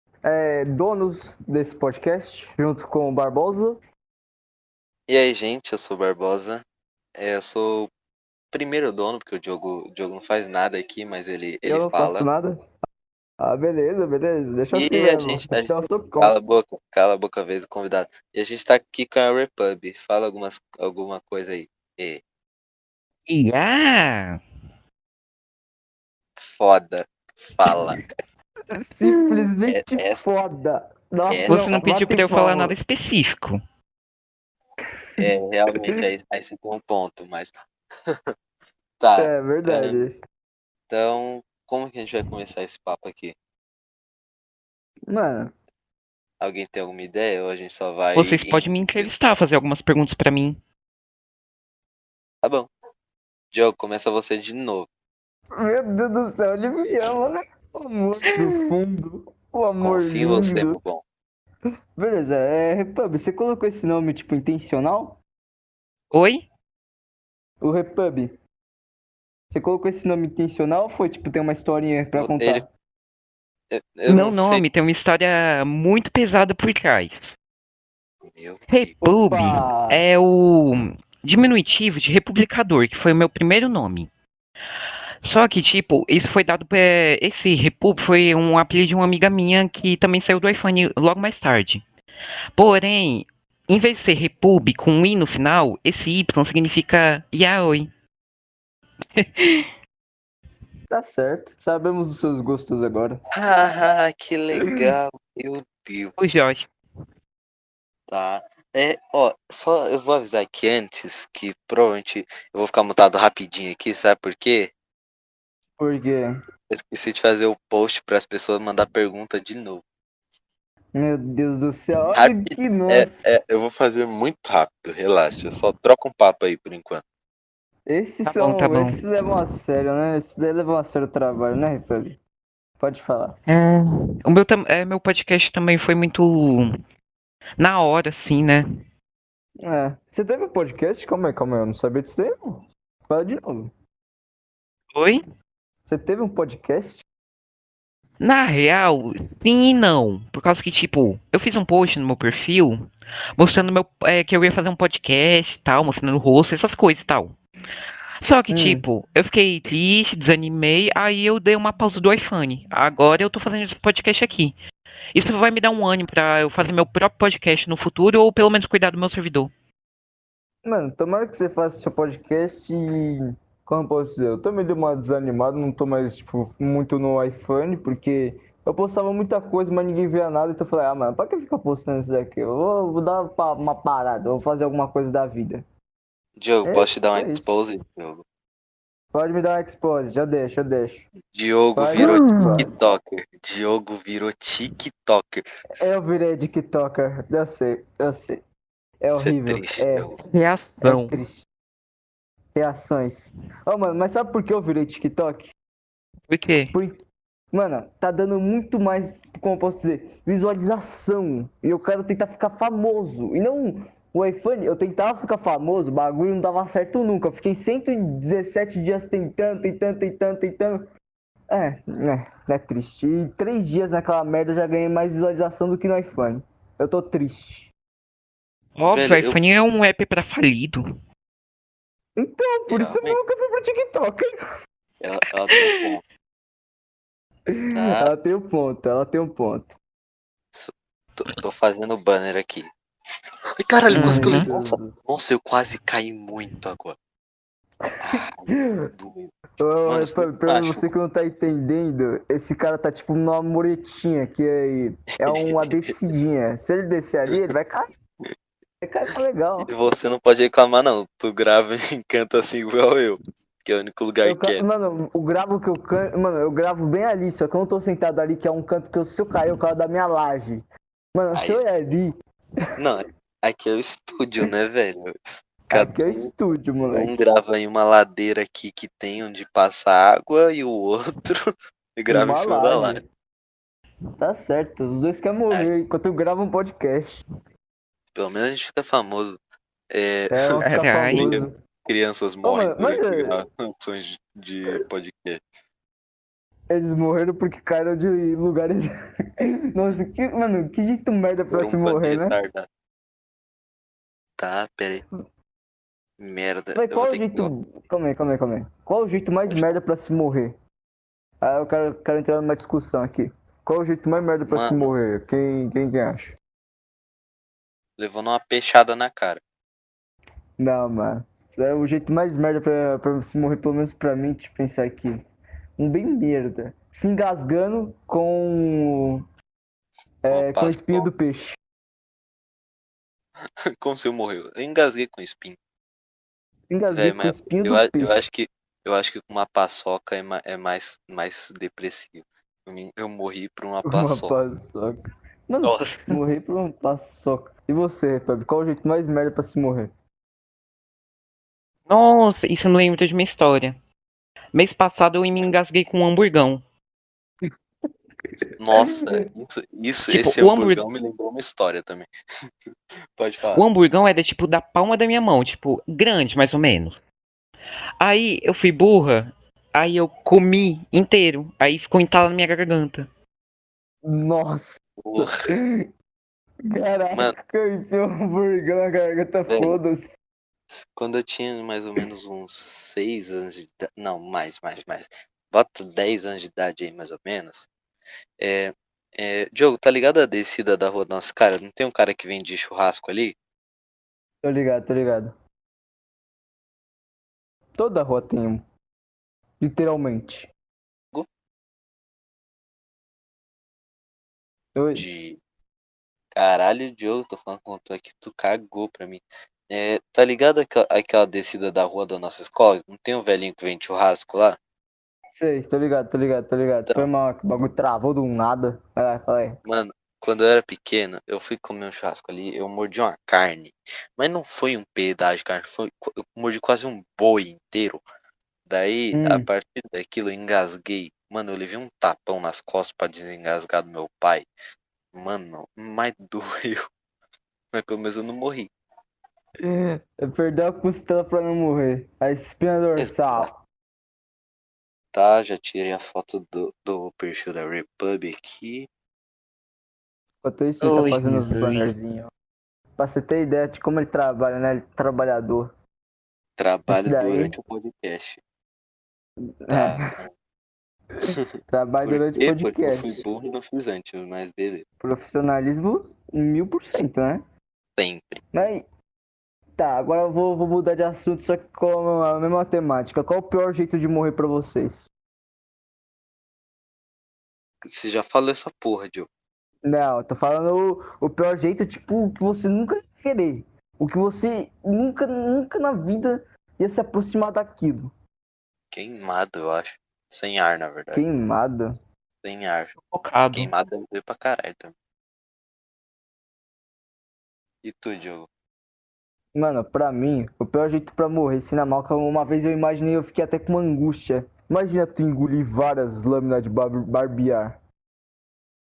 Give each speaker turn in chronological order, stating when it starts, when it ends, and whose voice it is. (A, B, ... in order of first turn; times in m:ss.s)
0:00.2-0:03.8 A
0:05.1-0:07.9 B
0:08.5-0:12.3 B
0:11.7-0:12.6 A
0:13.4-0:16.3 A
0:14.7-0:22.2 B
0:23.3-0:24.4 C
0:26.4-0:28.0 B
0:28.7-0:32.8 A
0:29.7-0:30.3 B
0:31.3-0:31.8 B
0:31.5-0:33.6 C
0:35.2-0:37.5 B
0:38.1-0:38.3 B
0:39.0-0:40.0 B
0:39.2-0:40.2 A
0:40.9-0:43.4 B
0:45.1-0:45.5 A
0:46.4-0:49.1 B
0:48.2-0:50.6 C
0:52.4-0:52.7 B
0:53.5-0:54.9 B
0:55.5-1:00.8 A
0:59.8-1:01.0 B
1:02.0-1:05.2 A
1:06.1-1:06.4 C
1:07.6-1:08.4 A
1:09.5-1:12.7 A
1:12.1-1:12.6 B
1:13.7-1:14.6 B
1:14.1-1:17.3 C
1:18.3-1:18.7 B
1:18.7-1:24.1 C
1:19.0-1:20.0 A
1:25.2-1:31.8 C
1:32.6-1:37.9 C
1:39.2-1:39.7 C
1:40.9-1:43.2 A
1:43.3-1:46.1 B
1:46.2-1:46.7 C
1:48.1-1:54.7 B
1:55.8-1:56.3 A
1:56.7-1:59.8 B
2:00.9-2:03.3 A
2:02.1-2:07.0 B
2:07.9-2:12.2 A
2:08.3-2:09.0 C
2:12.8-2:13.4 A
2:13.5-2:16.7 C
2:17.6-2:18.6 C
2:19.6-2:23.7 A
2:24.9-2:25.2 C
2:25.9-2:27.0 A
2:28.2-2:32.8 C
2:33.4-2:37.4 C
2:38.2-2:44.6 C
2:38.5-2:38.9 A
2:45.2-2:49.5 C
2:50.6-3:05.6 A
3:06.4-3:08.2 B
3:06.6-3:07.5 A
3:09.1-3:11.1 A
3:11.3-3:15.4 B
3:11.8-3:12.7 A
3:12.0-3:12.6 C
3:15.8-3:18.4 A
3:19.0-3:20.1 A
3:19.1-3:20.2 B
3:20.2-3:21.2 C
3:20.8-3:21.5 A
3:22.6-3:25.5 A
3:26.3-3:26.8 C
3:26.7-3:27.0 A
3:27.5-3:40.9 A
3:41.5-3:47.7 A
3:48.8-3:50.8 C
3:48.9-3:49.4 B
3:52.2-3:54.4 A
3:52.7-3:53.2 B
3:55.0-3:56.0 B
3:55.5-3:55.8 C
3:57.5-3:59.7 A
3:57.7-3:58.1 B
4:00.5-4:02.7 B
4:03.6-4:07.0 B
4:03.9-4:04.5 C
4:03.9-4:05.0 A
4:07.8-4:08.9 A
4:08.0-4:10.9 B
4:09.6-4:17.9 A
4:15.2-4:16.0 B
4:18.8-4:19.7 A
4:19.6-4:24.6 B
4:24.2-4:32.2 A
4:31.3-4:31.7 B
4:32.8-4:36.3 B
4:35.7-4:37.1 A
4:36.9-4:43.0 B
4:42.1-4:43.0 A
4:44.2-4:47.2 A
4:48.2-4:49.4 B
4:49.9-4:55.4 B
4:50.3-4:51.5 A
4:50.6-4:51.4 C
4:52.4-4:53.4 A
4:56.7-5:02.4 A
5:01.5-5:02.7 B
5:04.4-5:05.0 B
5:06.2-5:07.5 B
5:06.8-5:10.6 A
5:09.5-5:09.8 B
5:11.4-5:16.4 A
5:14.5-5:14.9 B
5:18.0-5:19.4 B
5:20.6-5:25.2 A
5:25.8-5:29.2 A
5:30.2-5:31.6 A
5:30.3-5:31.1 B
5:33.8-5:35.6 B
5:36.7-5:38.2 A
5:36.9-5:44.4 B
5:43.8-5:49.9 A
5:45.6-5:46.2 C
5:51.9-5:53.8 C
5:54.5-5:56.6 C
5:58.6-6:02.1 B
5:58.8-5:59.1 A
6:00.1-6:00.8 C
6:03.2-6:03.6 B
6:03.5-6:07.0 C
6:08.0-6:13.1 C
6:14.0-6:15.9 A
6:15.0-6:15.4 B
6:16.7-6:20.1 A
6:17.1-6:17.4 B
6:19.5-6:19.8 B
6:21.0-6:27.7 B
6:28.4-6:33.4 B
6:34.4-6:35.4 A
6:37.8-6:38.6 A
6:39.6-6:40.5 A
6:44.8-6:45.1 A
6:44.9-6:45.4 B
6:46.3-6:54.6 B
6:55.3-6:59.6 A
6:59.6-7:08.0 B
7:08.7-7:14.5 B
7:09.1-7:09.5 A
7:15.1-7:16.9 B
7:17.7-7:18.7 B
7:19.6-7:23.6 A
7:23.0-7:23.5 B
7:25.1-7:28.9 B
7:30.4-7:32.3 A
7:30.8-7:31.9 C
7:33.0-7:35.7 A
7:36.6-7:38.4 B
7:36.9-7:37.5 A
7:39.6-7:40.1 A
7:39.7-7:40.3 B
7:41.2-7:43.2 A
7:42.0-7:44.8 B
7:45.0-7:47.4 A
7:48.0-7:48.4 B
7:48.5-7:48.8 A
7:49.8-7:55.1 A
7:57.8-7:59.3 B
7:59.8-8:08.1 A
8:08.9-8:11.2 B
8:11.1-8:12.0 A
8:12.4-8:13.0 B
8:13.1-8:13.7 C
8:13.5-8:14.9 B
8:17.8-8:18.5 B
8:19.6-8:27.8 A